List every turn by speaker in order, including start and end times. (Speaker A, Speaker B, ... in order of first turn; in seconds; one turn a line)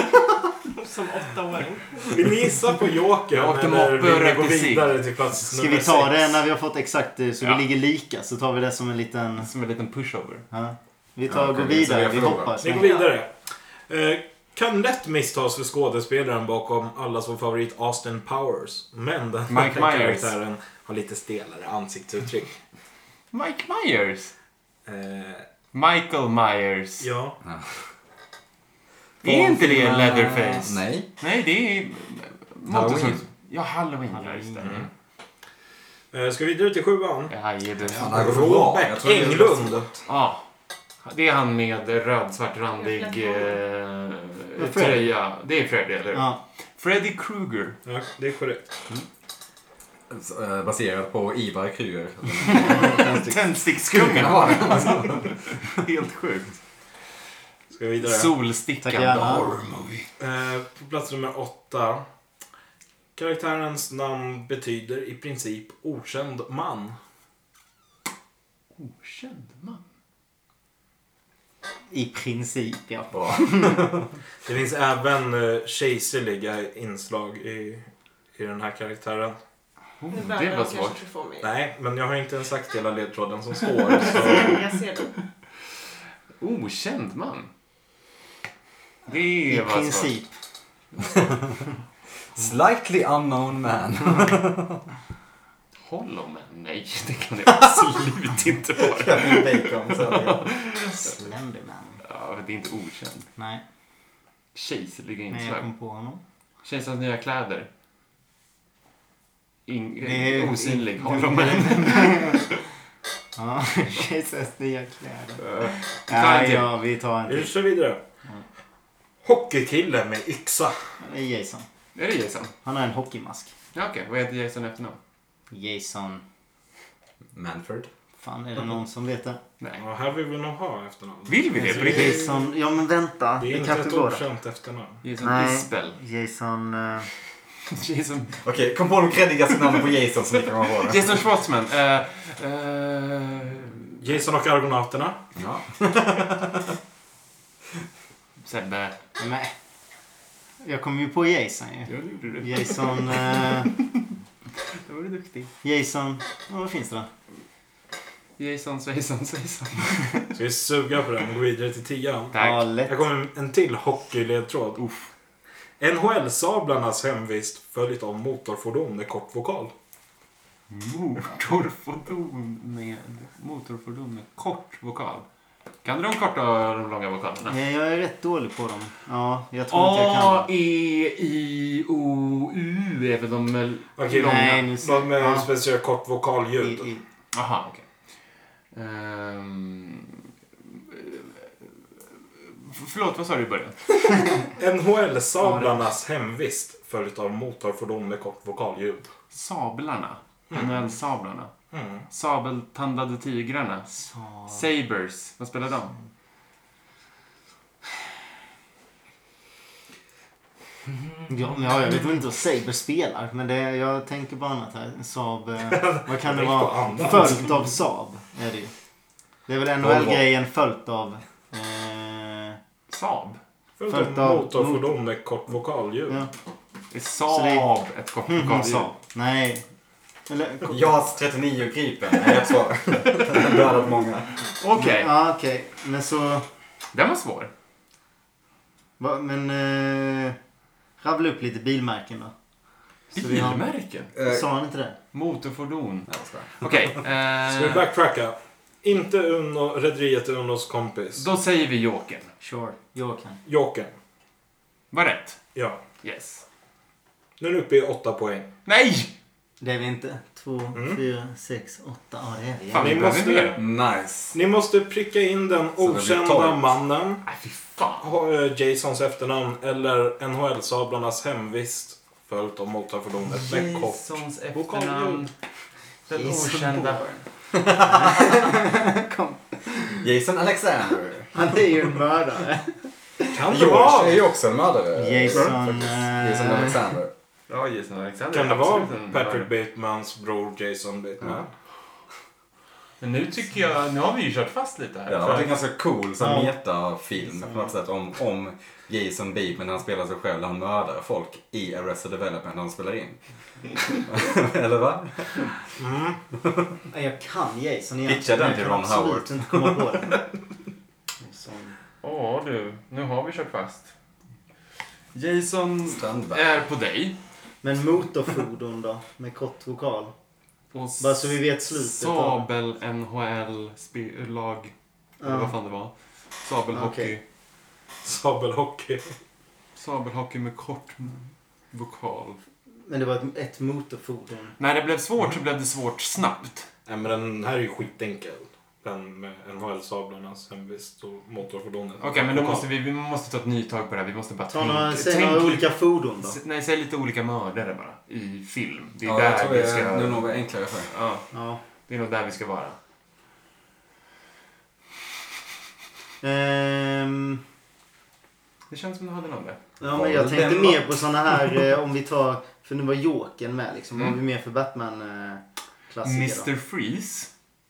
Speaker A: 0.7-2.1
Speaker B: 2.0-6.3
Speaker C: 3.3-5.0
Speaker D: 5.4-9.5
Speaker C: 9.4-10.4
Speaker D: 10.5-13.0
Speaker E: 11.3-12.8
Speaker B: 12.6-13.3
Speaker B: 13.9-22.6
Speaker C: 19.5-20.3
Speaker C: 23.3-24.3
Speaker B: 24.9-25.4
Speaker C: 25.7-27.1
Speaker B: 27.0-27.4
Speaker E: 27.4-27.7
Speaker E: 29.2-31.1
Speaker C: 29.2-34.9
Speaker E: 32.7-33.2
Speaker D: 34.2-34.5
Speaker B: 34.6-34.9
Speaker B: 36.1-37.3
Speaker C: 37.3-38.2
Speaker E: 38.0-40.0
Speaker B: 38.1-39.9
Speaker C: 40.1-40.5
Speaker C: 41.0-47.8
Speaker A: 42.8-43.6
Speaker D: 44.6-45.1
Speaker D: 46.1-46.4
Speaker B: 47.9-48.7
Speaker E: 50.1-55.4
Speaker C: 52.4-56.5
Speaker B: 57.7-58.3
Speaker C: 58.0-60.1
Speaker D: 58.8-59.5
Speaker B: 60.2-62.0
Speaker B: 63.1-67.0
Speaker C: 68.8-69.8
Speaker D: 71.9-74.0
Speaker E: 73.1-74.0
Speaker B: 74.4-79.4
Speaker C: 80.0-81.0
Speaker A: 80.1-81.5
Speaker B: 81.4-84.6
Speaker A: 84.1-85.2
Speaker C: 86.4-87.5
Speaker C: 89.1-90.1
Speaker D: 89.5-90.3
Speaker E: 92.3-94.8
Speaker C: 95.8-101.1
Speaker E: 98.7-100.5
Speaker D: 100.8-102.0
Speaker C: 102.0-103.3
Speaker D: 103.4-103.6
Speaker C: 104.5-105.7
Speaker D: 105.3-106.2
Speaker C: 106.6-107.7
Speaker C: 109.7-112.6
Speaker D: 110.0-112.5
Speaker D: 113.3-117.5
Speaker C: 115.4-116.7
Speaker B: 117.2-118.0
Speaker B: 119.2-120.8
Speaker D: 121.0-121.6
Speaker C: 121.9-122.5
Speaker D: 122.6-123.5
Speaker C: 123.7-125.0
Speaker D: 125.5-126.2
Speaker E: 127.3-127.9
Speaker D: 128.2-129.4
Speaker B: 129.8-132.5
Speaker C: 131.3-132.3
Speaker D: 131.7-134.2
Speaker B: 133.4-135.0
Speaker C: 135.0-136.0
Speaker D: 135.2-137.1
Speaker C: 137.7-138.4
Speaker E: 138.4-141.2
Speaker C: 140.6-144.0
Speaker B: 144.0-145.2
Speaker E: 145.3-146.7
Speaker C: 148.4-149.0
Speaker D: 149.2-149.5
Speaker D: 150.6-153.7
Speaker C: 151.9-153.7
Speaker C: 154.8-155.5
Speaker D: 155.6-157.1
Speaker C: 158.4-160.3
Speaker B: 160.3-164.8
Speaker C: 162.3-162.6
Speaker D: 162.3-162.9
Speaker C: 164.8-165.1
Speaker B: 165.8-169.7
Speaker C: 170.7-175.2
Speaker C: 175.8-177.6
Speaker D: 177.5-180.5
Speaker C: 179.7-184.7
Speaker B: 184.0-186.9
Speaker D: 184.1-185.5
Speaker D: 186.6-187.0
Speaker C: 187.3-187.8
Speaker C: 188.7-191.7
Speaker C: 192.4-193.9
Speaker B: 194.6-199.1
Speaker D: 195.4-195.8
Speaker C: 199.3-201.5
Speaker B: 200.5-200.9
Speaker B: 201.7-202.1
Speaker C: 202.1-203.9
Speaker D: 203.9-204.6
Speaker C: 204.5-205.9
Speaker D: 211.3-218.7
Speaker B: 215.6-217.7
Speaker D: 219.5-222.6
Speaker E: 219.8-220.2
Speaker C: 222.9-223.4
Speaker B: 223.8-226.3
Speaker D: 223.9-224.9
Speaker C: 226.9-228.9
Speaker D: 227.2-227.7
Speaker D: 228.3-229.6
Speaker D: 230.3-231.0
Speaker E: 230.7-234.3
Speaker C: 234.4-235.1
Speaker D: 234.7-236.4
Speaker C: 236.9-237.5
Speaker D: 239.0-240.4
Speaker D: 241.0-242.3
Speaker C: 243.1-244.1
Speaker D: 243.1-244.9
Speaker E: 244.2-244.4
Speaker C: 245.1-246.1
Speaker E: 246.1-246.7
Speaker C: 246.6-247.8
Speaker B: 247.5-251.2
Speaker C: 251.2-252.3
Speaker D: 252.4-253.4
Speaker B: 253.4-253.9
Speaker C: 254.9-255.4
Speaker C: 256.0-256.4
Speaker B: 257.4-258.5
Speaker C: 258.6-259.1
Speaker D: 259.6-263.0
Speaker B: 260.7-261.0
Speaker C: 262.7-263.6
Speaker B: 262.7-263.6
Speaker E: 263.6-264.4
Speaker B: 264.3-267.2
Speaker E: 265.8-266.8
Speaker C: 267.2-268.1
Speaker B: 268.0-275.3
Speaker C: 273.3-275.3
Speaker C: 276.1-277.2
Speaker D: 276.1-277.1
Speaker E: 277.5-278.5
Speaker D: 277.8-280.0
Speaker E: 280.0-281.4
Speaker D: 281.3-283.3
Speaker B: 283.3-284.2
Speaker E: 283.5-287.1
Speaker D: 284.9-286.9
Speaker C: 287.5-289.5
Speaker B: 288.3-291.5
Speaker C: 293.0-295.5
Speaker E: 295.1-303.2
Speaker D: 296.2-296.5
Speaker D: 297.3-297.7
Speaker E: 303.8-305.5
Speaker B: 305.8-306.2
Speaker E: 306.4-306.7
Speaker D: 306.9-310.2
Speaker E: 308.0-309.7
Speaker D: 311.3-311.7
Speaker C: 311.9-313.9
Speaker C: 315.1-317.2
Speaker E: 315.9-316.5
Speaker D: 317.6-320.1
Speaker C: 320.7-327.2
Speaker D: 321.0-322.5
Speaker D: 325.2-325.6
Speaker D: 326.7-327.2
Speaker B: 328.0-329.1
Speaker C: 329.8-332.4
Speaker D: 332.9-334.6
Speaker C: 334.6-336.7
Speaker B: 336.9-342.7
Speaker C: 342.0-350.3
Speaker D: 344.5-346.4
Speaker E: 349.0-350.9
Speaker C: 350.9-351.3
Speaker D: 351.3-351.6
Speaker C: 351.9-352.8
Speaker D: 356.2-357.4
Speaker C: 358.7-359.6
Speaker D: 359.8-366.5
Speaker E: 359.9-360.9
Speaker C: 366.0-367.3